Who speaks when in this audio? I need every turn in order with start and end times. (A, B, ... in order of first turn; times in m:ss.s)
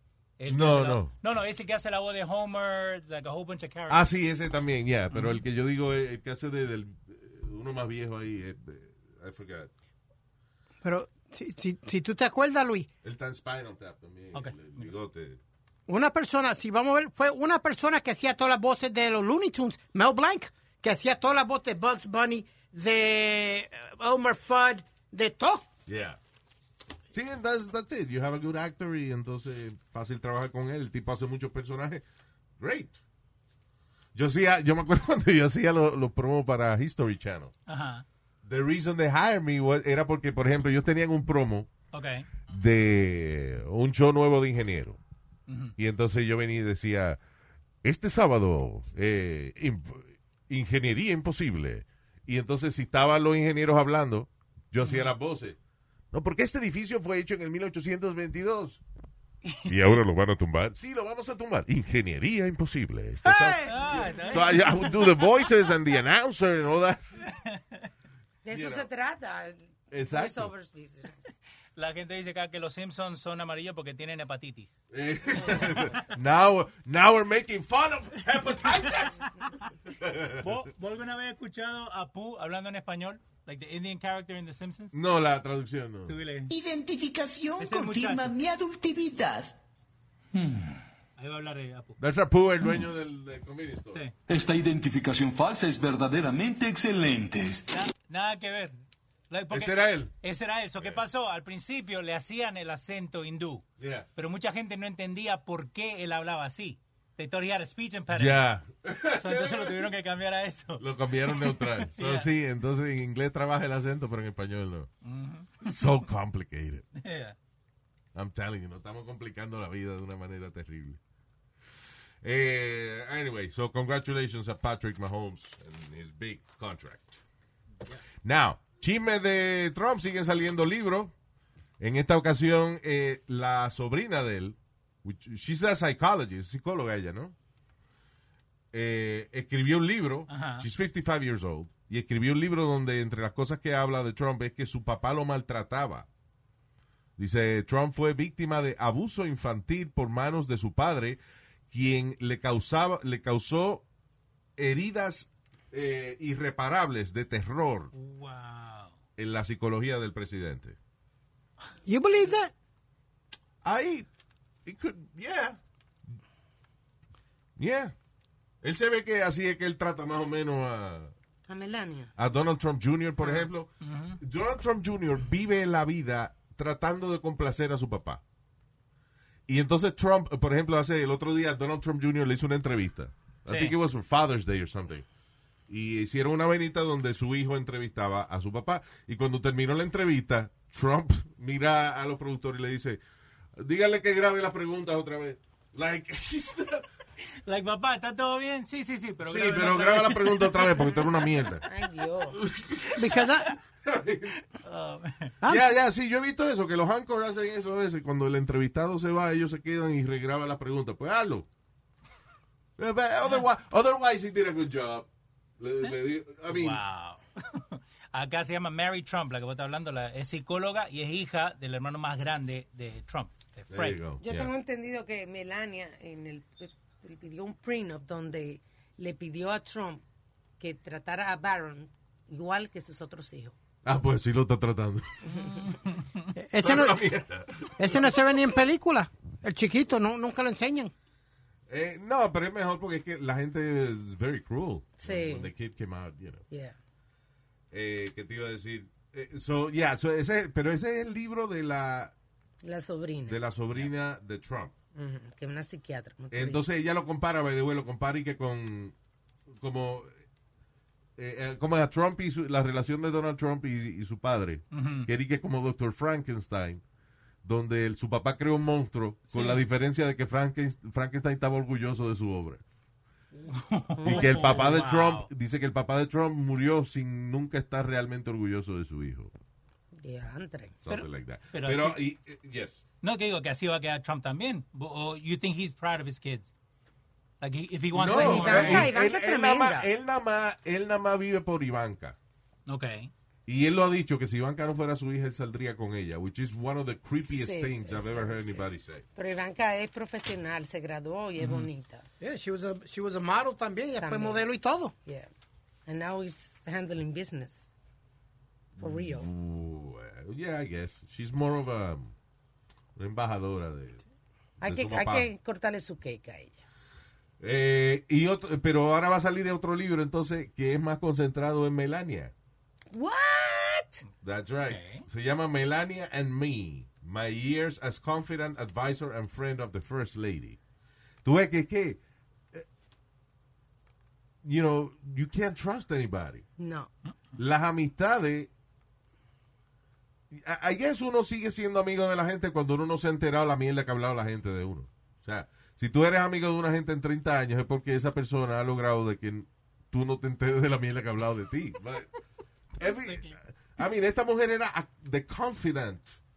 0:00.4-0:04.0 A
0:00.5-0:01.1 B
0:03.9-0:09.7 B
0:05.1-0:05.4 A
0:10.8-0:12.9 C
0:13.0-0:15.4 B
0:14.3-0:14.9 A
0:15.9-0:25.6 C
0:25.9-0:26.2 B
0:27.1-0:32.0 B
0:32.6-0:33.0 B
0:34.1-0:37.5 B
0:37.7-0:38.0 A
0:38.4-0:41.7 B
0:41.9-0:42.3 A
0:42.5-0:45.0 B
0:45.5-0:45.7 A
0:45.8-0:47.2 B
0:47.8-0:55.6 B
0:54.8-0:55.1 A
0:56.1-0:58.8 B
0:59.6-1:07.1 B
1:03.6-1:05.2 A
1:08.4-1:11.3 D
1:08.5-1:08.9 B
1:09.9-1:10.5 B
1:11.8-1:14.7 A
1:14.9-1:19.3 B
1:19.9-1:20.6 B
1:20.4-1:24.9 A
1:24.9-1:26.1 B
1:26.0-1:26.5 A
1:26.5-1:29.5 E
1:27.6-1:28.3 A
1:30.4-1:30.7 F
1:31.2-1:32.0 A
1:32.0-1:34.0 B
1:34.3-1:37.6 F
1:37.7-1:38.8 A
1:39.3-1:43.6 A
1:39.5-1:40.1 B
1:43.8-1:44.1 B
1:44.2-1:48.4 A
1:48.1-1:49.9 B
1:49.1-1:52.3 A
1:50.8-1:54.9 B
1:55.0-1:55.8 A
1:55.6-1:56.9 B
1:57.0-1:57.4 A
1:58.1-2:01.0 B
2:02.2-2:07.2 B
2:08.2-2:11.1 B
2:11.8-2:17.4 B
2:18.7-2:26.1 B
2:20.3-2:20.7 A
2:27.2-2:31.2 B
2:31.7-2:33.9 B
2:34.6-2:37.9 B
2:37.9-2:38.9 A
2:39.2-2:40.8 B
2:41.9-2:42.5 C
2:43.6-2:44.1 B
2:44.6-2:45.6 B
2:47.6-2:47.9 B
2:48.6-2:51.1 B
2:51.5-2:52.1 D
2:52.2-2:58.2 B
2:53.2-2:54.2 A
2:59.5-3:05.0 B
3:03.5-3:03.8 A
3:05.7-3:13.0 B
3:13.6-3:16.9 B
3:17.4-3:20.7 A
3:19.2-3:21.6 B
3:21.6-3:22.4 D
3:22.3-3:23.2 B
3:23.0-3:23.5 C
3:23.8-3:24.4 B
3:24.5-3:25.4 A
3:25.4-3:25.7 C
3:25.4-3:31.5 B
3:32.8-3:35.1 B
3:35.6-3:36.8 B
3:36.5-3:44.0 A
3:43.7-3:44.5 B
3:44.2-3:50.0 D
3:50.6-3:53.5 D
3:53.8-3:55.3 B
3:55.3-3:55.5 D
3:55.4-3:56.3 A
3:56.4-3:57.0 C
3:56.6-3:58.4 B
3:57.8-4:00.9 C
4:01.7-4:06.4 B
4:05.0-4:05.5 D
4:06.5-4:06.8 D
4:07.7-4:12.1 B
4:12.6-4:13.4 D
4:13.2-4:14.7 B
4:14.9-4:16.6 D
4:16.3-4:18.9 B
4:19.5-4:20.1 B
4:21.2-4:26.8 B
4:24.7-4:25.1 A
4:27.4-4:32.6 B
4:29.3-4:29.6 A
4:33.4-4:35.3 A
4:34.0-4:34.5 D
4:34.0-4:39.3 B
4:40.0-4:40.7 D
4:40.8-4:42.8 B
4:40.9-4:42.0 A
4:43.0-4:46.5 A
4:47.4-4:48.9 A
4:47.9-4:52.2 B
4:48.0-4:49.9 D
4:52.7-4:53.1 A
4:53.4-4:59.0 B
4:57.2-5:02.0 D
5:01.4-5:01.7 A
5:02.2-5:04.9 C
5:04.0-5:04.5 D
5:05.9-5:07.7 D
5:08.8-5:12.1 B
5:08.8-5:09.3 D
5:13.0-5:14.0 B
5:14.6-5:16.6 D
5:14.6-5:15.3 B
5:17.4-5:22.3 B
5:22.9-5:24.0 D
5:24.2-5:30.6 B
5:24.7-5:25.0 A
5:31.2-5:32.0 B
5:34.4-5:36.4 B
5:36.6-5:36.9 D
5:37.4-5:38.5 B
5:40.3-5:52.1 B
5:52.8-5:56.1 B
5:52.9-5:53.4 A